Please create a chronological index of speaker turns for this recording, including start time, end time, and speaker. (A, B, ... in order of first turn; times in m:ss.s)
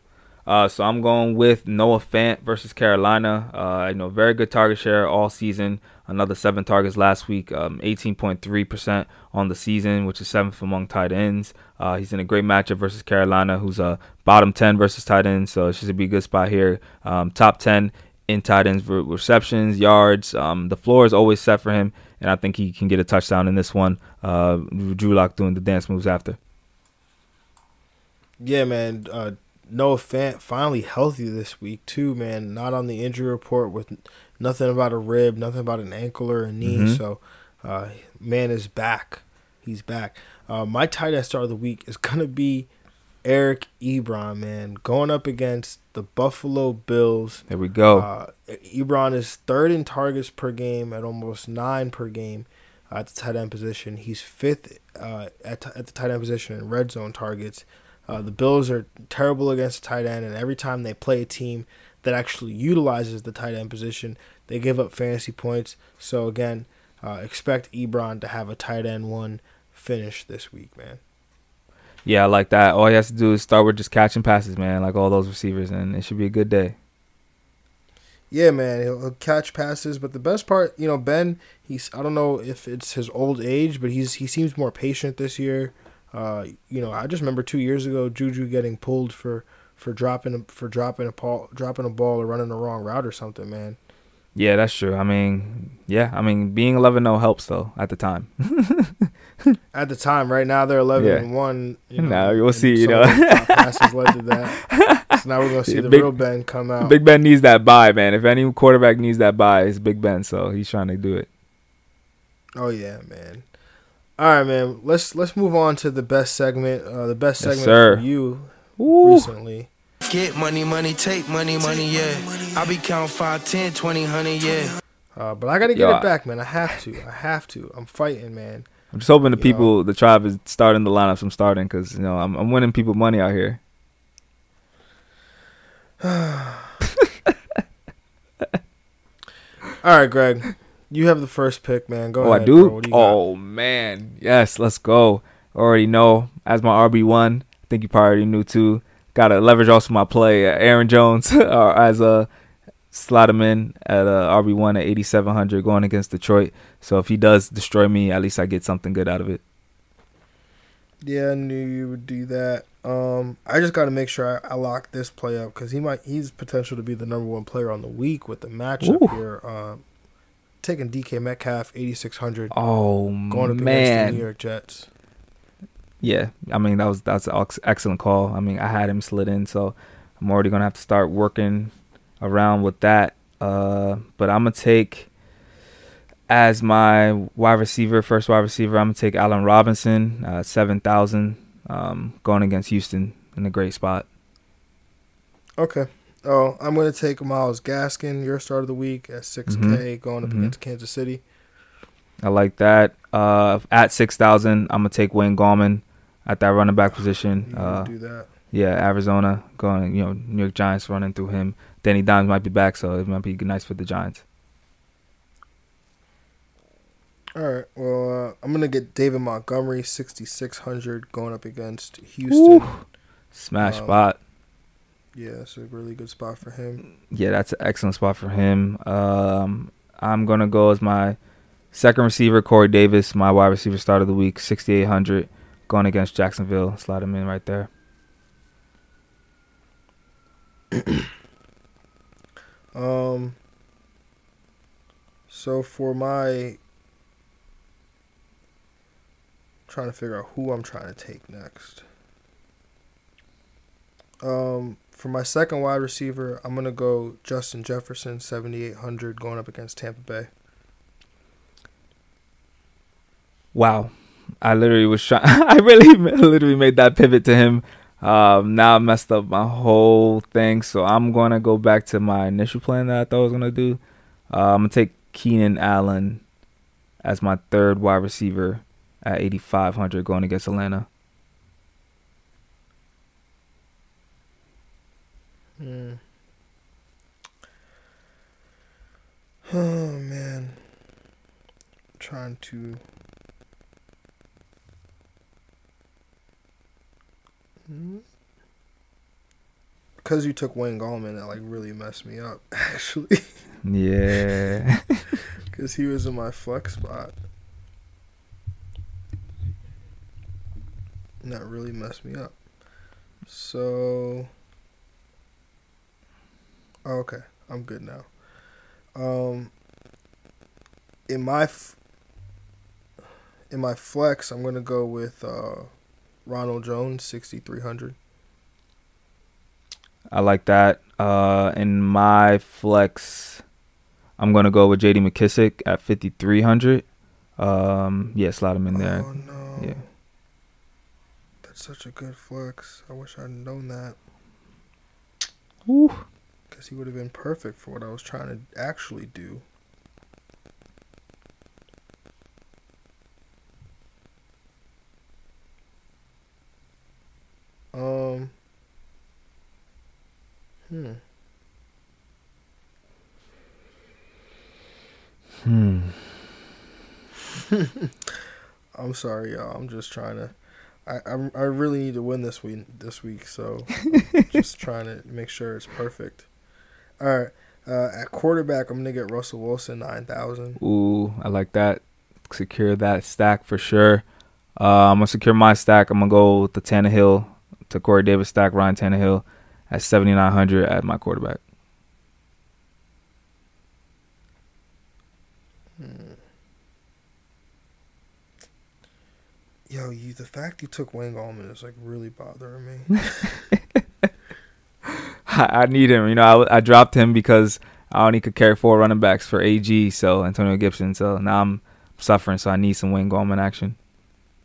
0:00.5-0:26.4 A
0:28.4-0:42.7 B
0:36.6-0:37.0 A
0:43.2-1:11.0 B
0:47.5-0:48.1 A
1:12.0-1:16.8 A
1:18.3-1:33.8 B
1:34.4-1:39.6 A
1:39.7-1:47.0 B
1:41.0-1:41.3 A
1:42.0-1:43.8 A
1:44.6-1:45.1 A
1:45.7-1:46.1 A
1:46.8-1:51.3 A
1:52.6-1:53.4 B
1:54.2-1:59.7 B
1:57.4-1:58.0 A
1:58.8-1:59.3 A
2:00.1-2:04.8 C
2:05.2-2:08.7 B
2:05.8-2:06.0 A
2:08.9-2:13.6 A
2:09.4-2:09.7 B
2:16.0-2:16.8 B
2:19.8-2:23.2 B
2:22.2-2:32.3 A
2:32.9-2:39.4 A
2:41.0-2:49.8 B
2:48.8-2:49.2 A
2:50.6-2:52.5 B
2:52.5-2:54.2 A
2:53.3-2:54.9 B
2:56.0-3:05.1 A
3:06.3-3:14.1 A
3:15.6-3:21.2 B
3:19.5-3:20.5 A
3:22.2-3:27.9 A
3:27.4-3:28.3 B
3:28.5-3:34.2 A
3:37.4-3:42.8 B
3:42.3-3:42.8 A
3:43.3-3:44.2 A
3:43.6-3:44.0 B
3:45.2-3:46.8 B
3:47.1-3:51.2 A
3:51.7-3:57.7 A
4:00.7-4:01.0 B
4:02.8-4:03.4 B
4:05.3-4:06.6 B
4:09.7-4:11.8 B
4:14.2-4:20.3 B
4:23.5-4:33.8 A
4:34.3-4:36.2 A
4:37.0-4:40.9 A
4:45.6-4:46.0 B
4:49.5-4:50.6 B
4:52.0-4:52.8 B
4:57.7-4:58.0 B
5:00.0-5:03.2 B
5:03.6-5:05.0 A
5:05.5-5:07.1 B
5:11.2-5:12.3 B
5:13.3-5:14.3 B
5:16.9-5:18.1 B
5:19.0-5:19.5 B
5:21.1-5:21.8 B
5:23.5-5:25.7 B
5:26.3-5:28.0 B
5:30.1-5:33.4 A
5:34.2-5:36.8 A
5:37.4-5:39.8 A
5:38.7-5:39.8 B
5:41.4-5:44.0 B
5:45.7-5:46.0 A
5:46.5-5:49.4 B
5:57.7-5:58.3 B
6:00.7-6:01.0 B
6:05.4-6:06.0 A
6:07.5-6:08.1 B
6:08.8-6:10.3 B
6:10.9-6:16.3 B
6:17.0-6:20.6 B
6:20.6-6:24.0 A
6:24.6-6:31.4 A
6:35.8-6:36.2 B
6:39.7-6:43.5 B
6:43.5-6:43.8 A
6:44.9-6:53.8 A